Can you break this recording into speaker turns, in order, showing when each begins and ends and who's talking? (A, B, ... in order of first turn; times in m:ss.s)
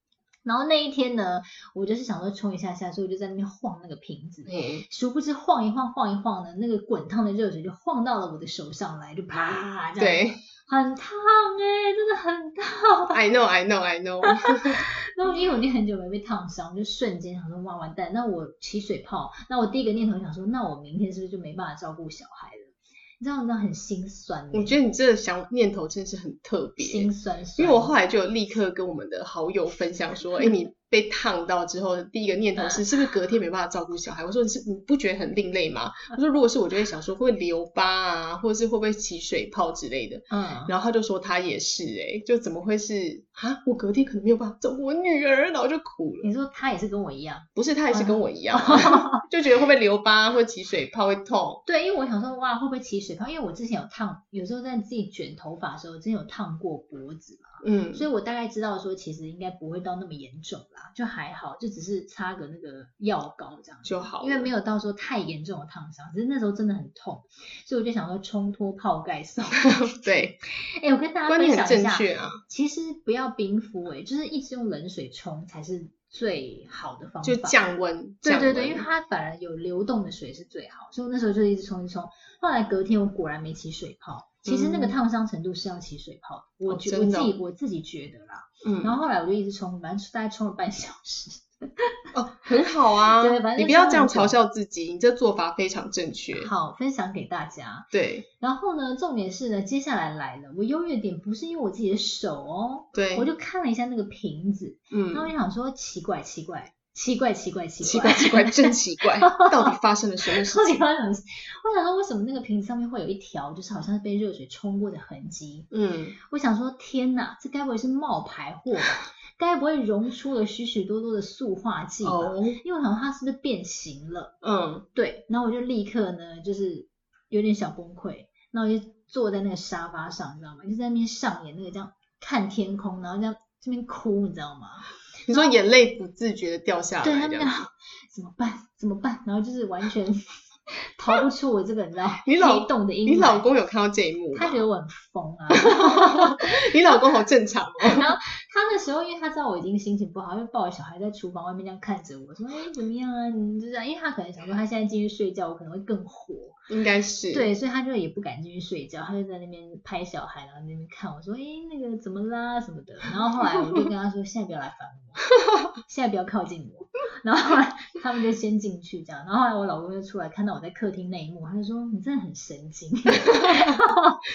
0:00.4-0:13.2 A
0:04.4-0:04.8 B
0:10.0-0:10.4 B
0:13.1-0:14.8 B
0:14.5-0:24.8 A
0:24.5-0:46.3 B
0:26.8-0:27.9 A
0:40.3-0:40.7 A
0:46.2-0:49.2 A
0:47.5-0:51.6 B
0:51.6-1:09.9 A
0:57.6-0:58.0 B
1:03.8-1:04.5 B
1:09.8-1:10.4 B
1:10.8-1:17.6 A
1:11.3-1:12.4 B
1:17.2-1:18.8 B
1:18.2-1:31.9 A
1:24.4-1:25.0 B
1:26.7-1:27.3 B
1:28.6-1:29.0 B
1:32.1-1:36.5 B
1:33.2-1:34.4 A
1:36.3-1:49.8 A
1:37.9-1:38.2 B
1:42.9-1:43.3 B
1:44.9-1:45.3 B
1:47.8-1:50.8 B
1:50.3-1:55.7 A
1:55.7-1:56.1 B
1:56.3-2:04.3 A
2:02.0-2:02.6 B
2:04.4-2:04.8 B
2:04.9-2:15.6 A
2:15.2-2:17.6 B
2:17.0-2:20.3 A
2:20.8-2:23.4 A
2:22.2-2:24.6 B
2:24.3-2:26.5 A
2:25.6-2:28.1 B
2:27.8-2:36.6 A
2:36.7-2:37.5 B
2:37.3-2:45.2 A
2:45.8-2:54.2 A
2:53.2-2:53.8 B